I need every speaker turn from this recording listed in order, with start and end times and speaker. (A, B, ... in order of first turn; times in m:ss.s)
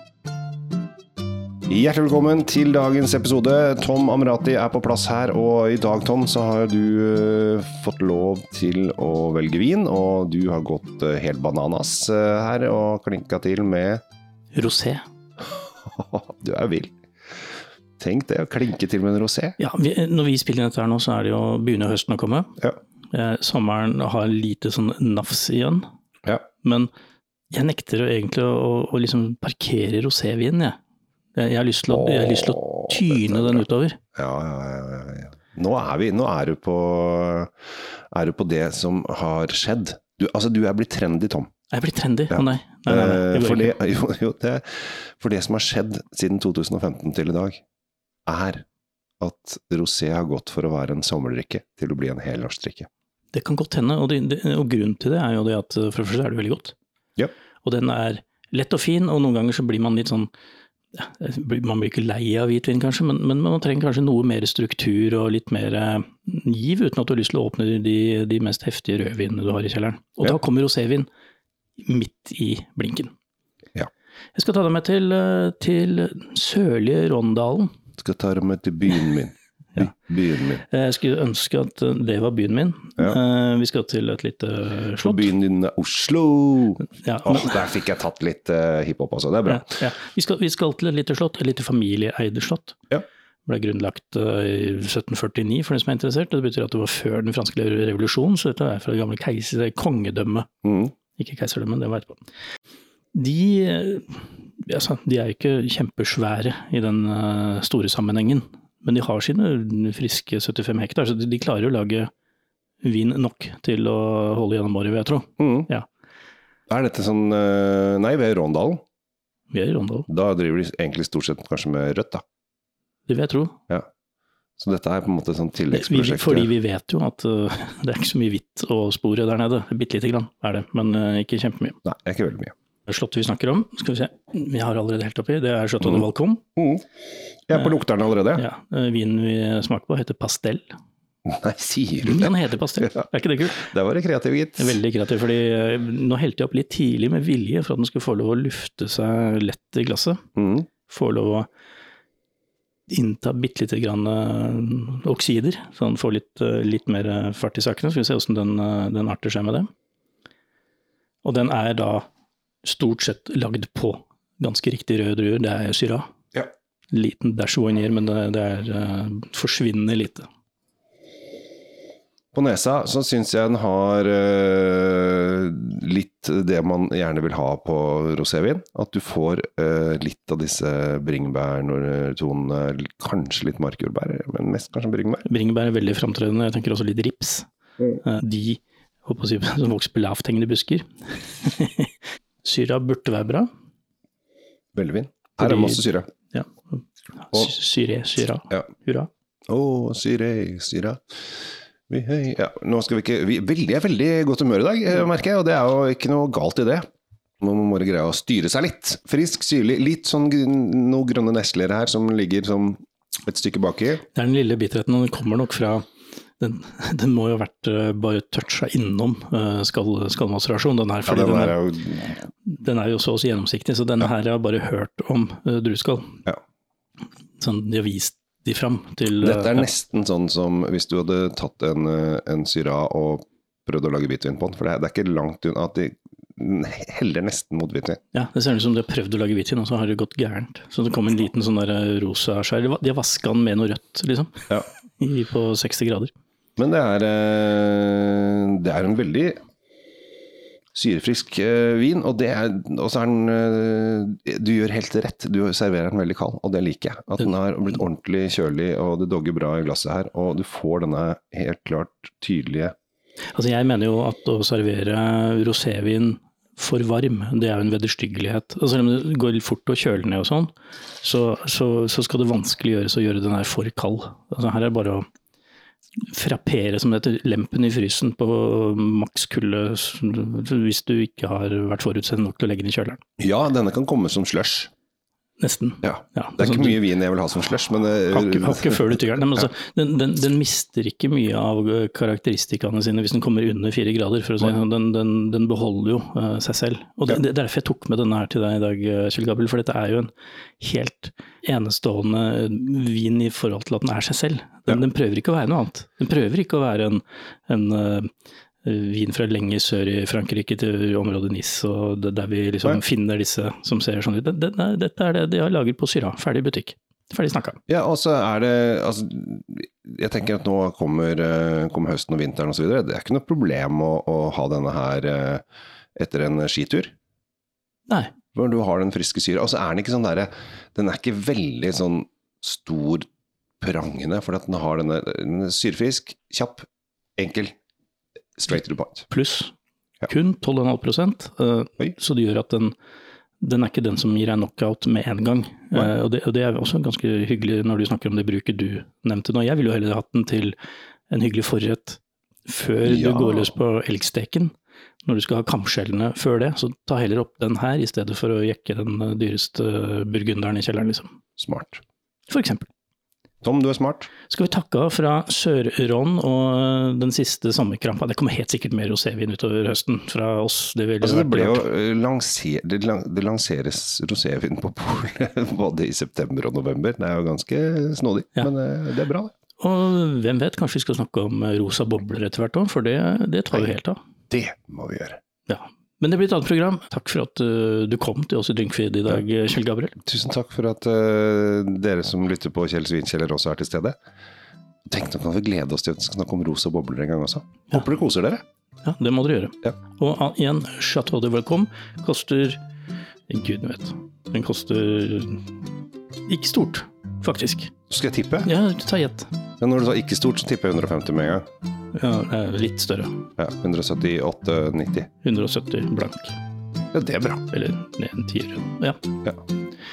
0:01.7-0:14.0 A
0:14.5-0:15.0 B
0:15.4-0:16.9 A
0:18.0-0:19.6 A
0:19.6-0:22.5 B
0:23.1-0:25.8 B
0:26.6-0:26.9 B
0:27.5-0:30.8 B
0:31.3-0:34.0 B
0:31.9-0:33.6 A
0:34.2-0:37.5 A
0:38.1-0:41.5 A
0:41.7-0:43.7 B
0:42.3-0:47.6 A
0:48.3-0:48.6 A
0:49.2-0:52.9 A
0:53.3-0:56.7 B
0:57.6-1:00.3 B
1:00.9-1:11.1 B
1:11.8-1:13.1 B
1:14.3-1:17.7 B
1:18.0-1:20.6 A
1:20.6-1:25.3 B
1:25.0-1:29.7 A
1:26.9-1:27.6 B
1:29.4-1:32.8 B
1:33.4-1:40.5 B
1:40.6-1:40.9 A
1:41.1-1:42.2 B
1:43.1-1:52.1 B
1:52.8-1:55.8 B
1:55.4-1:55.7 A
1:56.7-1:58.8 A
1:59.5-2:00.1 B
2:00.1-2:02.2 A
2:03.1-2:03.6 B
2:04.6-2:06.5 A
2:05.7-2:11.8 B
2:11.8-2:12.5 A
2:12.8-2:16.4 B
2:16.6-2:16.8 A
2:17.5-2:18.5 A
2:18.4-2:20.7 B
2:21.2-2:23.0 A
2:22.0-2:23.7 B
2:23.5-2:24.8 A
2:24.6-2:30.2 B
2:30.4-2:30.7 A
2:30.9-2:31.5 B
2:32.9-2:39.7 B
2:41.2-2:42.0 B
2:42.6-2:46.1 B
2:46.9-2:50.2 B
2:52.3-3:05.2 A
3:05.2-3:07.5 B
3:08.0-3:11.9 B
3:12.4-3:13.5 B
3:14.7-3:16.1 A
3:15.4-3:16.6 B
3:17.2-3:19.1 B
3:19.5-3:21.3 A
3:21.9-3:26.8 A
3:27.4-3:34.0 A
3:34.1-3:35.8 B
3:36.4-3:41.6 B
3:41.0-3:42.2 A
3:42.4-3:46.2 B
3:47.4-3:49.7 B
3:49.2-3:58.0 A
3:58.1-4:06.1 B
4:06.6-4:09.4 A
4:10.7-4:22.7 A
4:23.3-4:35.0 B
4:36.1-4:43.0 B
4:43.2-4:44.7 A
4:45.4-4:46.8 B
4:45.8-4:49.5 A
4:48.1-5:08.1 B
5:08.6-5:17.6 B
5:17.7-5:25.4 A
5:26.0-5:26.9 A
5:28.3-5:33.1 A
5:33.6-5:36.6 A
5:37.2-5:37.5 A
5:38.4-5:39.1 A
5:39.1-5:39.5 B
5:40.1-5:42.7 B
5:43.4-5:50.6 B
5:51.1-5:54.5 B
5:52.8-5:53.5 A
5:55.0-6:01.2 B
6:01.4-6:01.8 A
6:02.3-6:02.7 B
6:03.4-6:04.1 A
6:04.3-6:11.6 B
6:11.0-6:19.3 A
6:19.6-6:24.0 B
6:24.3-6:25.2 A
6:25.5-6:30.0 B
6:30.0-6:34.0 A
6:34.9-6:38.4 A
6:38.8-6:42.6 B
6:43.3-6:45.5 B
6:46.3-6:47.7 B
6:47.9-6:48.6 A
6:48.4-6:49.3 B
6:49.6-6:51.4 A
6:51.9-6:53.2 B
6:53.4-6:55.1 A
6:55.2-6:56.4 B
6:56.9-6:57.4 A
6:57.5-6:59.0 B